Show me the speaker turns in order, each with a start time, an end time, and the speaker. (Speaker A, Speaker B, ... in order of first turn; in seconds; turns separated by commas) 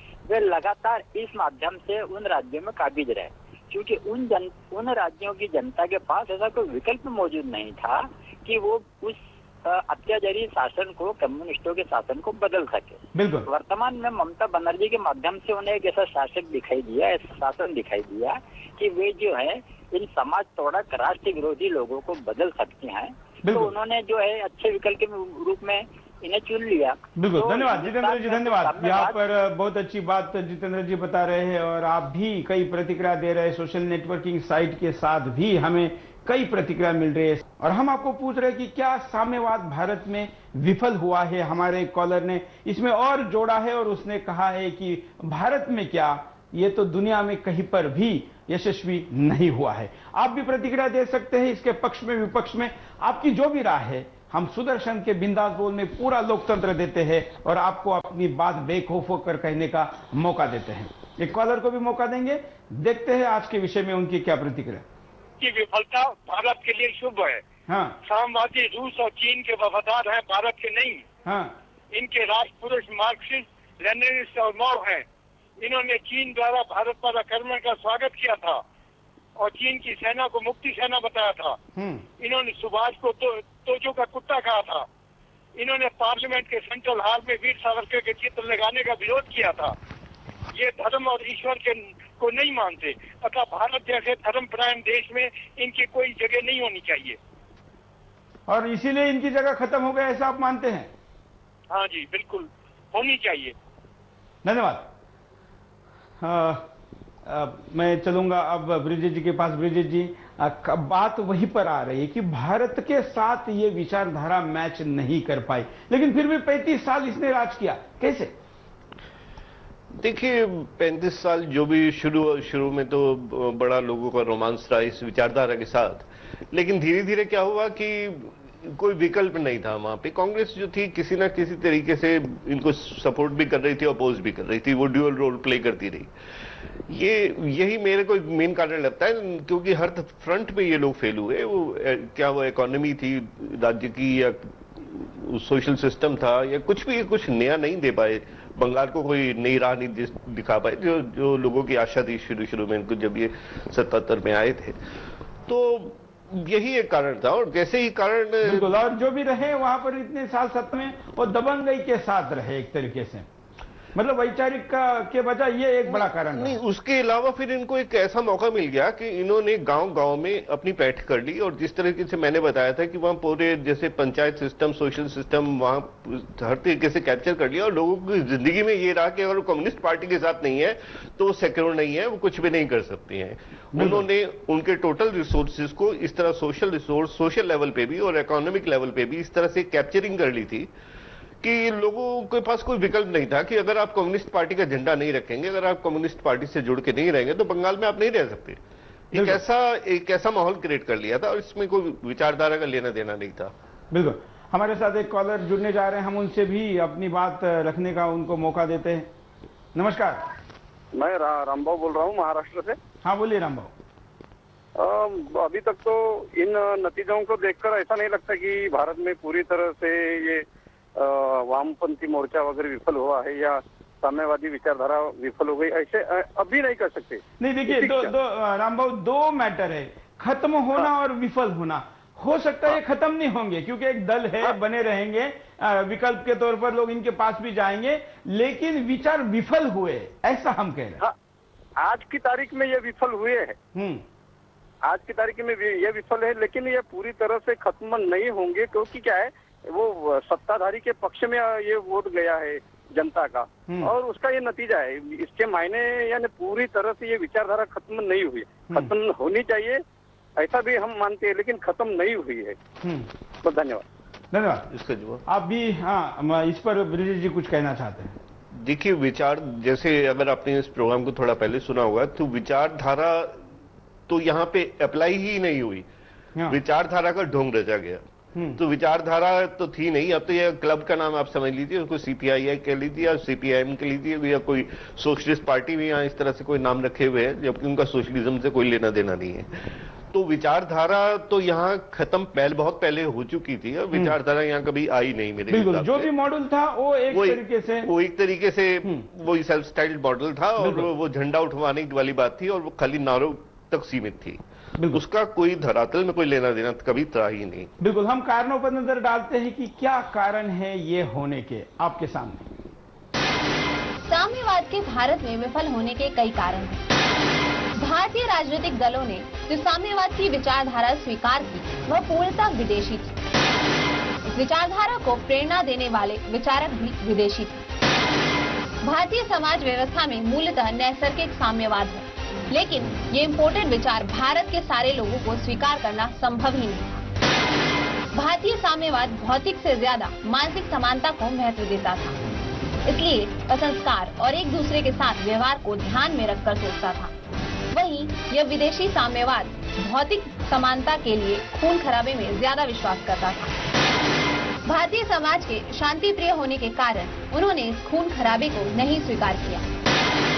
Speaker A: 0.3-29.2, Speaker B: 13.1-13.4, Speaker B: 23.4-23.7, Speaker B: 27.1-64.8, Speaker C: 65.4-67.4, Speaker B: 67.7-68.0, Speaker C: 68.0-71.0, Speaker B: 71.2-71.5, Speaker C: 71.9-75.0, Speaker C: 75.6-78.6, Speaker C: 79.4-81.6, Speaker B: 81.8-82.1, Speaker C: 82.2-84.8, Speaker C: 85.6-89.7, Speaker C: 90.5-97.2, Speaker B: 98.5-100.9, Speaker C: 101.7-103.5, Speaker B: 104.4-104.9, Speaker B: 106.2-106.6, Speaker B: 107.2-118.3, Speaker D: 120.0-136.1, Speaker D: 136.9-154.8, Speaker D: 155.5-158.7, Speaker B: 158.5-163.2, Speaker B: 163.9-166.6, Speaker D: 165.9-190.7, Speaker B: 183.8-184.0, Speaker D: 191.4-198.6, Speaker D: 199.1-203.5, Speaker B: 199.1-199.4, Speaker B: 203.9-209.1, Speaker B: 209.7-210.2, Speaker E: 210.9-212.8, Speaker B: 213.0-213.7, Speaker E: 214.8-220.4, Speaker E: 221.0-228.1, Speaker B: 227.4-241.0, Speaker E: 241.8-243.6, Speaker B: 243.7-244.0, Speaker E: 244.8-259.8, Speaker B: 253.7-253.9, Speaker E: 260.4-262.6, Speaker B: 262.8-263.1, Speaker E: 263.4-263.8, Speaker B: 264.3-264.6, Speaker D: 264.7-265.2, Speaker B: 265.3-268.1, Speaker D: 268.5-273.4, Speaker D: 274.1-275.9, Speaker D: 276.5-278.0, Speaker D: 278.6-289.5, Speaker D: 290.1-296.1, Speaker B: 295.5-297.9, Speaker D: 297.1-307.7, Speaker B: 300.6-300.9, Speaker B: 307.8-312.5, Speaker F: 314.1-316.8, Speaker F: 317.8-323.1, Speaker F: 324.3-327.6, Speaker F: 328.8-337.0, Speaker F: 338.1-342.1, Speaker F: 342.9-347.1, Speaker F: 347.7-353.5, Speaker F: 354.6-359.6